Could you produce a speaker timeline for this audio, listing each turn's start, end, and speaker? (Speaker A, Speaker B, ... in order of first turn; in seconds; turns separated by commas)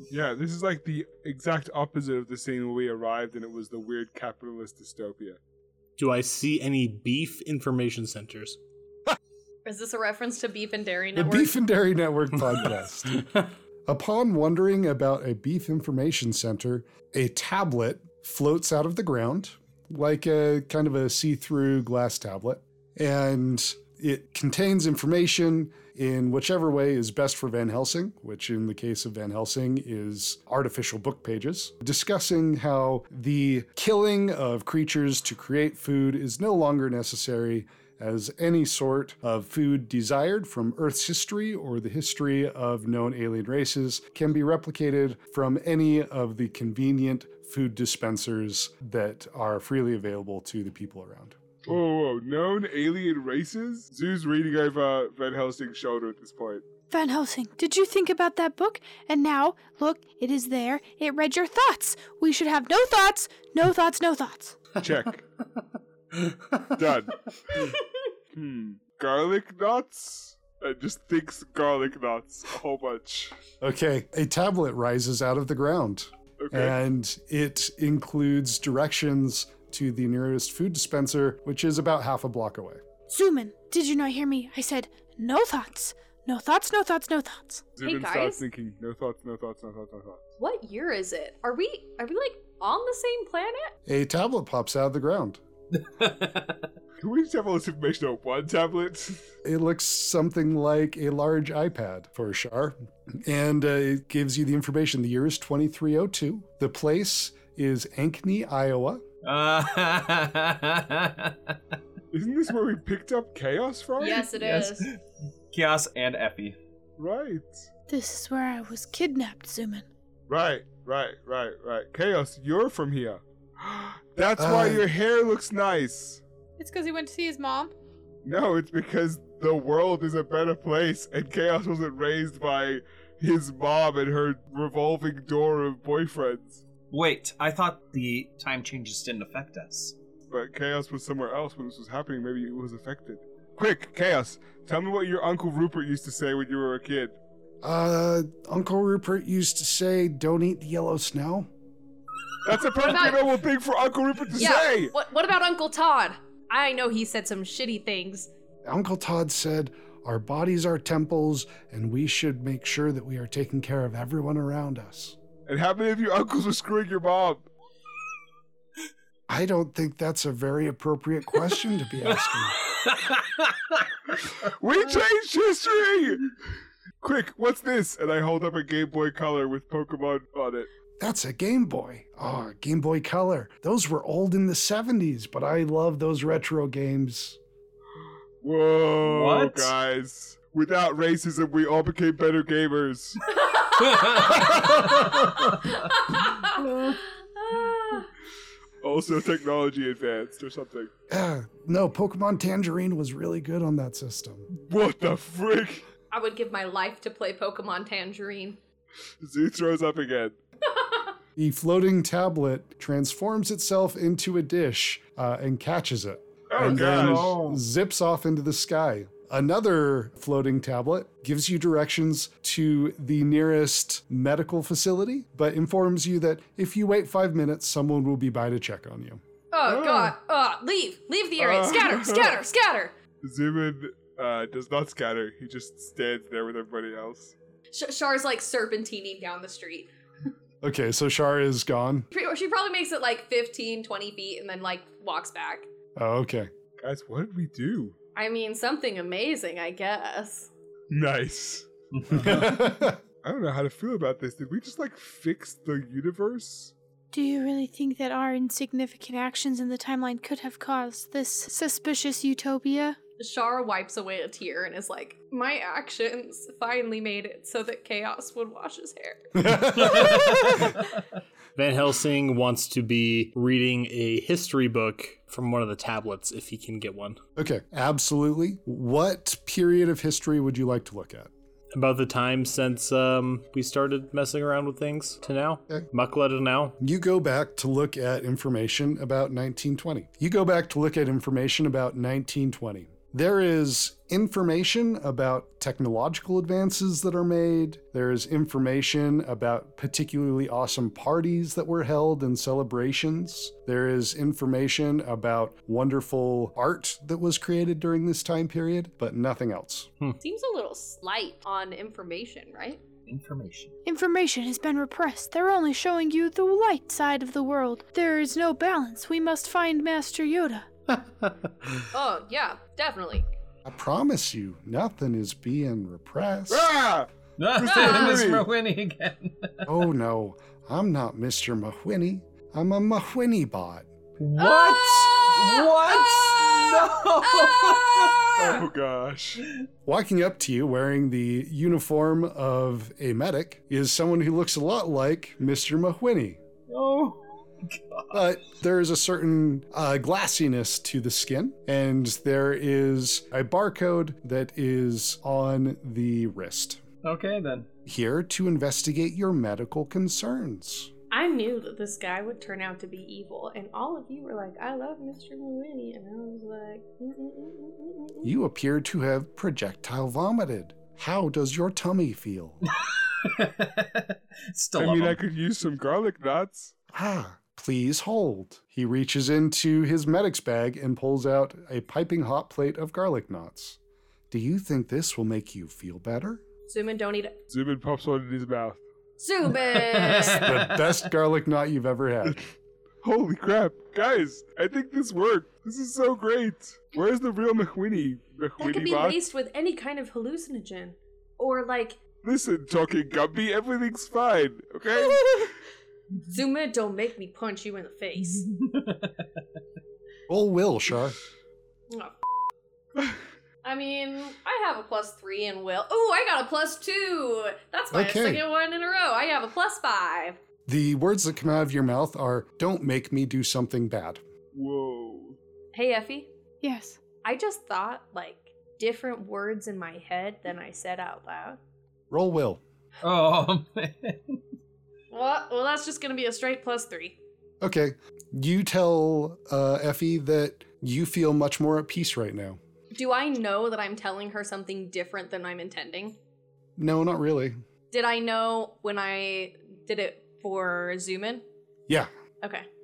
Speaker A: 0.1-5.4, Speaker B: 6.0-8.6, Speaker C: 9.7-11.6, Speaker D: 11.2-13.3, Speaker D: 13.9-51.4, Speaker A: 51.7-56.7, Speaker E: 56.9-64.6, Speaker A: 64.8-65.2, Speaker A: 66.7-67.7, Speaker A: 68.3-73.3, Speaker D: 73.6-82.8, Speaker A: 76.4-76.8, Speaker E: 83.1-87.7, Speaker A: 87.8-90.3, Speaker C: 87.8-88.5, Speaker C: 90.4-93.7, Speaker D: 93.9-95.4, Speaker F: 95.7-96.7, Speaker A: 97.0-99.3, Speaker D: 99.5-109.0, Speaker F: 109.2-111.6, Speaker A: 112.1-114.3, Speaker C: 114.0-114.9, Speaker F: 114.3-115.0, Speaker F: 115.5-116.6, Speaker A: 117.0-117.7, Speaker E: 117.9-119.9, Speaker A: 120.3-126.2, Speaker D: 124.4-124.9, Speaker E: 126.6-127.8, Speaker A: 128.2-136.6, Speaker F: 136.9-139.9, Speaker A: 140.3-147.2, Speaker D: 147.6-151.5, Speaker A: 152.4-154.9, Speaker C: 152.8-153.3, Speaker C: 154.4-158.3, Speaker D: 158.7-165.2, Speaker A: 165.5-167.5, Speaker D: 169.3-172.6, Speaker F: 172.8-173.8, Speaker A: 174.4-176.4, Speaker A: 177.0-180.7, Speaker D: 181.0-187.4, Speaker A: 188.4-193.4, Speaker F: 189.0-189.7, Speaker C: 193.4-194.2, Speaker F: 193.8-194.9, Speaker D: 194.3-195.0, Speaker C: 195.5-198.1, Speaker F: 196.5-197.0, Speaker A: 198.8-200.9, Speaker D: 201.1-204.5, Speaker A: 204.5-205.9, Speaker C: 206.1-208.6, Speaker A: 209.2-210.4, Speaker C: 210.7-211.1, Speaker D: 211.4-229.2, Speaker A: 216.5-217.4, Speaker F: 216.6-217.6, Speaker C: 229.5-232.9, Speaker A: 229.7-230.2, Speaker A: 231.4-232.4, Speaker A: 233.2-237.3, Speaker C: 237.7-239.9, Speaker D: 240.6-242.1, Speaker C: 242.1-245.7, Speaker D: 245.9-246.5, Speaker A: 246.8-248.0, Speaker C: 248.2-250.5, Speaker A: 250.9-256.7, Speaker F: 251.9-252.5, Speaker D: 252.2-253.0, Speaker E: 257.1-263.0, Speaker C: 263.2-270.0, Speaker D: 269.4-270.5, Speaker B: 269.9-270.7, Speaker B: 271.6-277.2, Speaker D: 277.4-281.3, Speaker B: 281.7-286.8, Speaker D: 286.8-309.9, Speaker C: 310.2-312.8, Speaker F: 313.1-313.8, Speaker E: 313.9-320.7, Speaker B: 321.1-321.8, Speaker C: 321.9-323.3, Speaker D: 323.6-326.7, Speaker A: 326.5-328.5, Speaker F: 327.4-329.7, Speaker D: 329.7-333.9, Speaker F: 334.2-338.3, Speaker C: 334.4-338.6, Speaker A: 338.3-339.4, Speaker D: 339.9-346.4, Speaker F: 346.7-348.2, Speaker D: 348.1-356.8, Speaker F: 357.0-357.7, Speaker D: 357.9-360.9, Speaker C: 361.1-368.3, Speaker D: 368.2-372.6, Speaker F: 373.2-375.2, Speaker A: 374.8-376.7, Speaker D: 376.9-383.8, Speaker D: 384.3-386.4, Speaker C: 386.7-387.4, Speaker A: 387.5-388.8, Speaker C: 389.2-390.6, Speaker F: 389.7-391.0, Speaker D: 390.3-392.4, Speaker A: 393.0-399.2, Speaker C: 398.6-402.0, Speaker A: 402.2-405.5, Speaker C: 404.9-405.3, Speaker C: 406.3-408.4, Speaker F: 408.5-409.3, Speaker D: 410.3-411.2, Speaker C: 411.9-412.2, Speaker C: 413.6-420.4, Speaker D: 417.9-418.4, Speaker D: 420.7-424.2, Speaker A: 424.5-425.4, Speaker C: 425.7-426.3, Speaker E: 426.6-427.0, Speaker C: 427.2-431.6, Speaker D: 432.1-432.6, Speaker F: 433.0-434.4, Speaker C: 435.1-437.2, Speaker D: 437.6-442.6, Speaker C: 442.9-446.2, Speaker D: 446.8-447.6, Speaker C: 447.9-451.4